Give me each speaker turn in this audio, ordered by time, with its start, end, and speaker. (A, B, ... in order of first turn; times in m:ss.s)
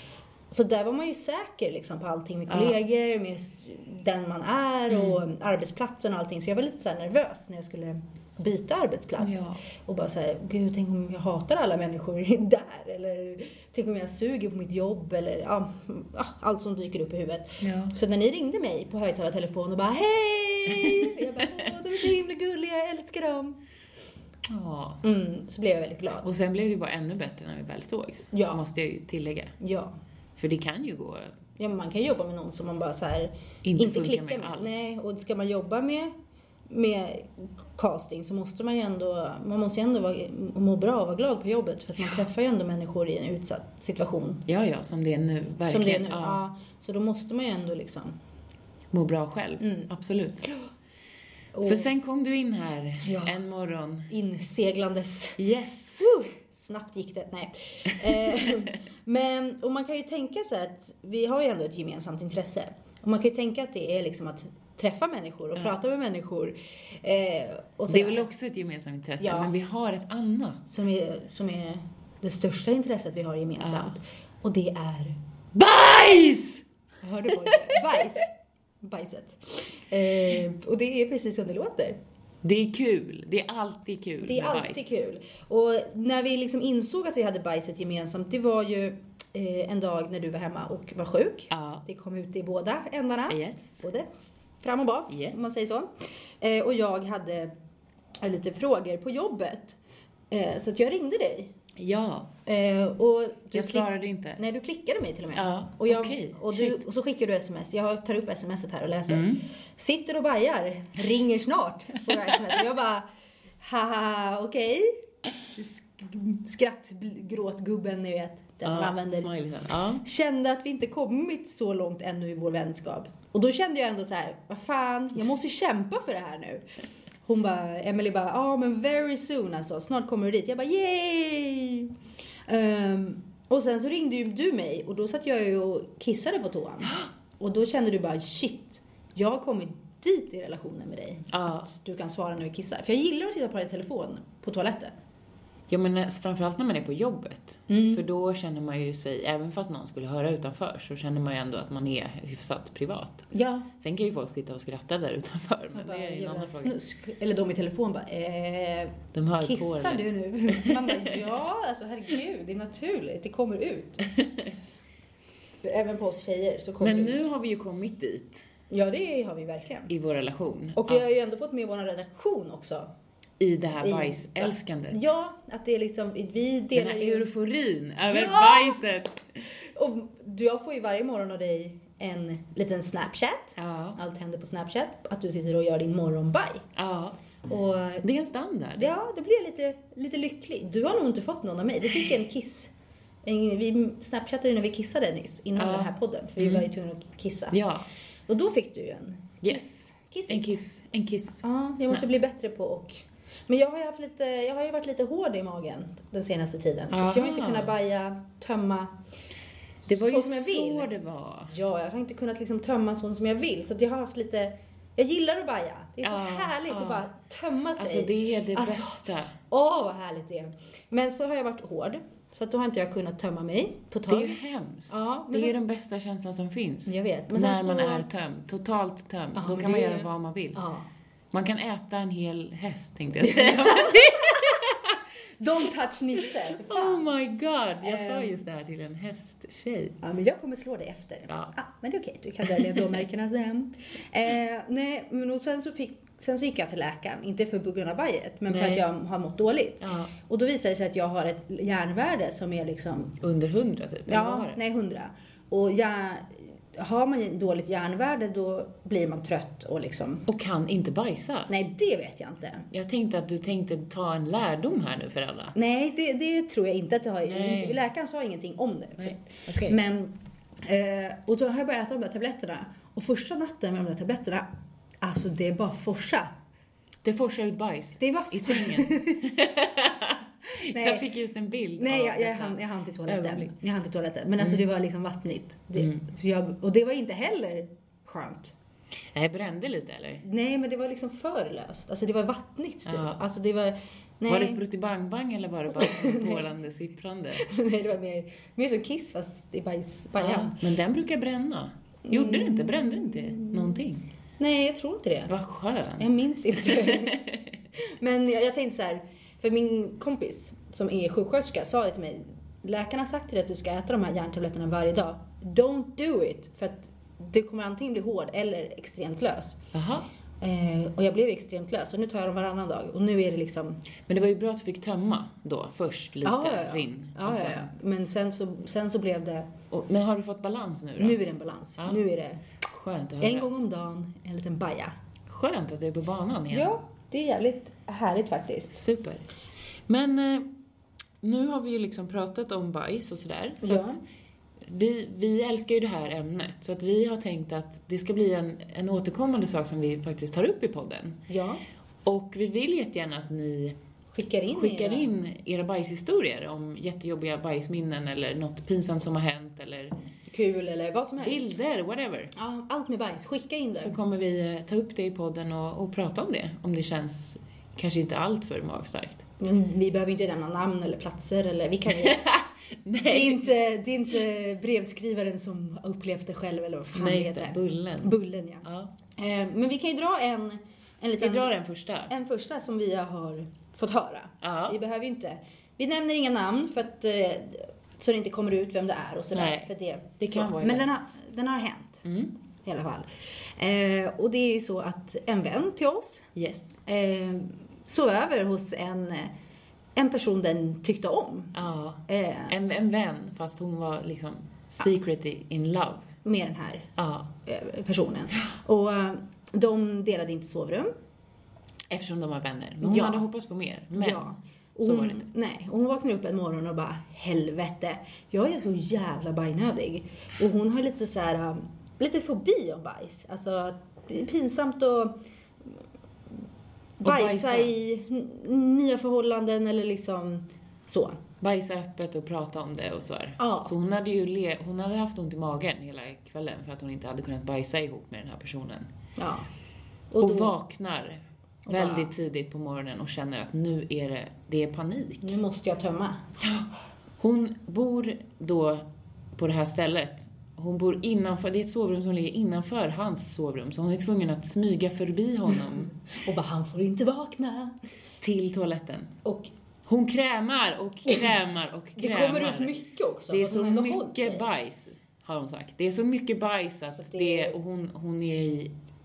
0:00.5-0:23.6 A
0:02.5-0:02.8 B
0:04.9-0:05.2 B
0:09.2-0:09.6 B
0:17.6-0:17.9 B
0:20.8-0:21.6 B
0:24.5-0:25.0 B
0:25.0-0:26.3 A
0:26.2-0:29.6 B
0:28.3-0:28.6 A
0:29.6-0:30.0 A
0:30.4-0:31.4 B
0:31.6-0:36.1 A
0:33.6-0:34.8 B
0:36.7-0:44.4 A
0:44.5-0:46.4 B
0:45.7-0:48.2 A
0:48.9-0:50.5 B
0:49.6-0:49.9 A
0:51.5-0:51.9 A
0:51.6-0:54.1 B
0:53.0-0:53.4 A
0:54.1-0:55.4 A
0:55.4-0:56.2 B
0:56.1-1:08.3 A
0:58.0-0:58.6 B
1:07.9-1:10.8 B
1:09.2-1:09.5 A
1:10.7-1:15.2 A
1:13.6-1:14.0 B
1:15.5-1:16.6 B
1:17.0-1:18.3 A
1:17.5-1:17.8 B
1:18.8-1:22.0 A
1:22.4-1:24.8 B
1:24.2-1:34.1 A
1:31.5-1:31.8 B
1:33.3-1:33.8 B
1:34.6-1:35.9 A
1:35.1-1:35.4 B
1:36.4-1:37.5 A
1:38.2-1:39.8 A
1:40.3-1:41.5 A
1:41.8-1:42.3 B
1:42.5-1:53.1 A
1:43.5-1:44.4 B
1:45.3-1:46.8 B
1:49.1-1:49.4 B
1:53.6-1:55.0 A
1:55.5-1:59.3 A
1:58.6-2:00.0 B
2:00.0-2:06.6 A
2:07.3-2:11.9 A
2:12.5-2:24.9 A
2:21.3-2:21.7 B
2:25.7-2:36.8 B
2:27.7-2:28.0 A
2:33.3-2:33.7 A
2:35.7-2:44.1 A
2:39.1-2:41.3 B
2:44.2-2:44.5 B
2:45.6-2:47.3 A
2:46.8-2:48.5 B
2:48.7-2:49.9 A
2:49.9-2:51.1 B
2:50.8-2:52.9 A
2:53.4-2:55.1 B
2:53.8-2:57.3 A
2:56.7-2:59.3 B
2:58.1-2:58.8 A
2:59.6-3:06.6 A
3:03.6-3:04.0 B
3:06.8-3:07.2 B
3:07.5-3:08.0 A
3:08.0-3:08.9 B
3:08.8-3:12.7 A
3:13.3-3:17.6 A
3:15.6-3:16.7 B
3:17.5-3:17.9 B
3:18.3-3:20.6 A
3:19.4-3:22.0 B
3:21.4-3:29.0 A
3:26.9-3:27.8 B
3:29.9-3:30.9 A
3:29.9-3:31.5 B
3:31.5-3:45.6 A
3:36.0-3:37.1 B
3:37.8-3:39.3 B
3:44.1-3:50.6 B
3:46.9-3:48.1 A
3:49.4-3:50.9 A
3:51.3-3:55.0 B
3:53.2-3:54.6 A
3:55.4-3:57.1 A
3:56.4-4:00.0 B
3:57.8-3:58.4 A
4:00.0-4:13.2 A
4:01.3-4:01.5 B
4:02.4-4:03.0 B
4:08.5-4:08.9 B
4:09.8-4:10.1 B
4:13.2-4:14.6 B
4:14.1-4:20.3 A
4:20.3-4:21.5 B
4:21.5-4:22.7 A
4:22.7-4:25.6 B
4:25.6-4:34.5 A
4:27.3-4:27.8 B
4:29.0-4:29.8 B
4:35.0-4:36.3 A
4:37.0-4:43.5 B
4:38.0-4:39.2 A
4:40.6-4:41.1 A
4:41.8-4:48.5 A
4:45.8-4:46.0 B
4:49.1-4:50.2 B
4:50.2-4:54.6 A
4:52.9-4:53.2 B
4:54.3-4:57.5 B
4:55.7-4:56.5 A
4:57.4-5:00.6 A
5:00.2-5:04.1 B
5:02.1-5:03.8 A
5:04.4-5:05.3 A
5:05.3-5:07.4 B
5:06.0-5:19.6 A
5:19.7-5:20.1 B
5:20.4-5:23.8 A
5:24.1-5:27.7 B
5:26.2-5:29.5 A
5:29.7-5:31.2 B
5:31.0-5:32.4 A
5:32.6-5:33.6 B
5:33.2-5:34.9 A
5:35.3-5:36.7 B
5:36.5-5:38.8 A
5:38.7-5:39.2 B
5:39.9-5:40.5 B
5:41.2-5:44.0 B
5:43.6-5:44.0 A
5:44.6-5:51.2 B
5:51.3-5:51.6 A
5:52.0-5:53.8 B
5:54.1-5:55.1 A
5:54.5-5:59.9 B
6:00.3-6:01.6 A
6:01.2-6:02.3 B
6:02.4-6:04.0 A
6:03.8-6:09.2 B
6:09.4-6:12.3 A
6:11.9-6:13.5 B
6:13.1-6:21.5 A
6:16.9-6:18.9 B
6:21.2-6:22.1 B
6:22.1-6:32.0 A
6:24.4-6:24.8 B
6:29.3-6:30.9 B
6:32.0-6:32.4 B
6:32.6-6:33.1 A
6:33.6-6:36.3 A
6:36.4-6:36.8 B
6:36.8-6:39.3 A
6:40.0-6:41.6 A
6:41.5-6:46.1 B
6:42.1-6:42.5 A
6:46.2-6:46.9 A
6:47.0-6:47.3 B
6:47.4-6:50.9 A
6:51.9-6:55.2 B
6:52.8-6:53.2 A
6:54.0-7:05.2 A
7:07.0-7:11.2 A
7:07.0-7:07.7 B
7:11.4-7:18.9 B
7:13.4-7:13.8 A
7:19.2-7:19.5 A
7:20.1-7:20.5 A
7:20.2-7:25.4 B
7:21.7-7:22.1 A
7:25.2-7:26.2 A
7:26.4-7:26.7 B
7:27.2-7:35.9 B
7:36.1-7:37.8 A
7:38.2-7:39.1 B
7:39.2-7:39.5 A
7:39.8-7:48.8 B
7:42.0-7:44.4 A
7:47.0-7:47.6 A